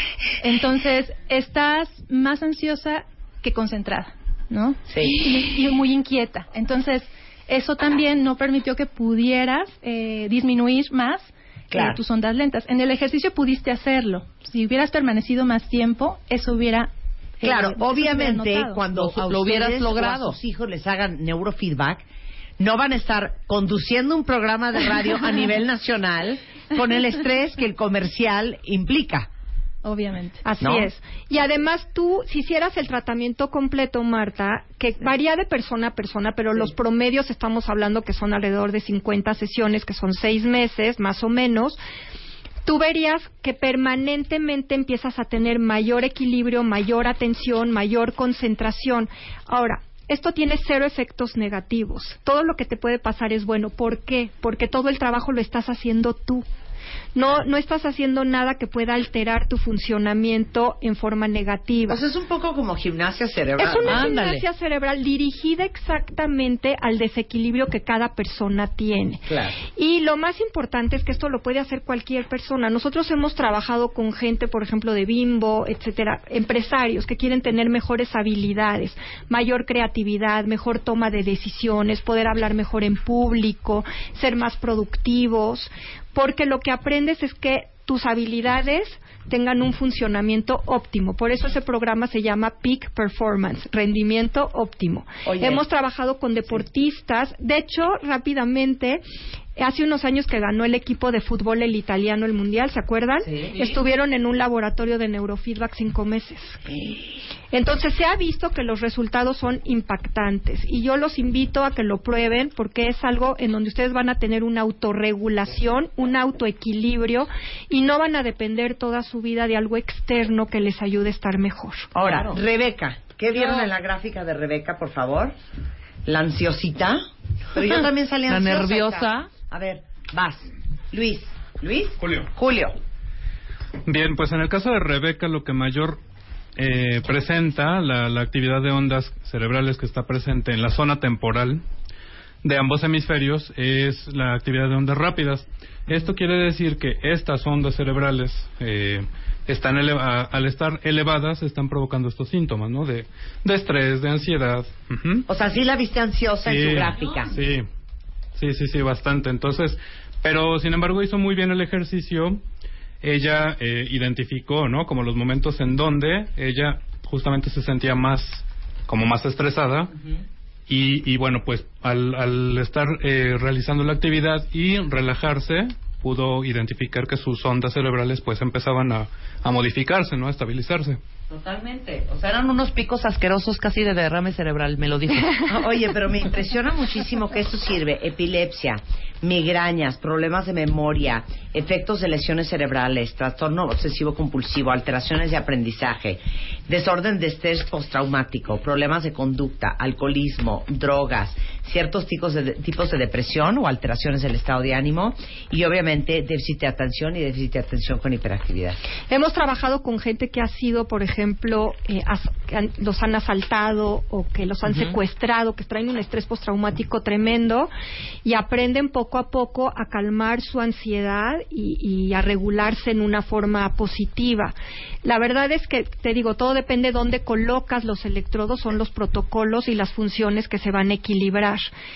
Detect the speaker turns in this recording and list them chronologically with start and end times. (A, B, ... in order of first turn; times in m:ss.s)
0:00.4-0:19.0 A
0:04.9-0:05.2 B
0:11.7-0:12.0 B
0:17.4-0:22.1 B
0:19.1-0:20.4 C
0:22.6-0:29.3 B
0:29.8-0:30.4 A
0:30.4-0:41.8 D
0:30.6-0:30.9 B
0:42.6-0:56.5 D
0:57.2-1:02.0 D
1:01.9-1:04.1 B
1:03.6-1:09.2 D
1:03.9-1:04.4 C
1:09.3-1:09.6 B
1:09.8-1:39.0 D
1:35.2-1:35.6 B
1:39.6-1:46.6 D
1:43.2-1:43.6 B
1:47.5-2:01.9 D
2:02.0-2:05.4 B
2:02.0-2:02.3 C
2:03.4-2:03.7 C
2:06.0-2:12.8 B
2:08.3-2:09.3 C
2:12.0-2:12.3 E
2:13.9-2:16.0 E
2:16.6-2:21.6 E
2:22.4-2:35.3 E
2:35.3-2:37.4 B
2:36.4-2:37.7 E
2:38.4-2:42.4 E
2:43.0-2:49.9 E
2:50.7-3:01.0 E
3:01.3-3:05.5 C
3:05.4-3:28.8 B
3:29.1-3:37.7 D
3:38.2-3:51.7 D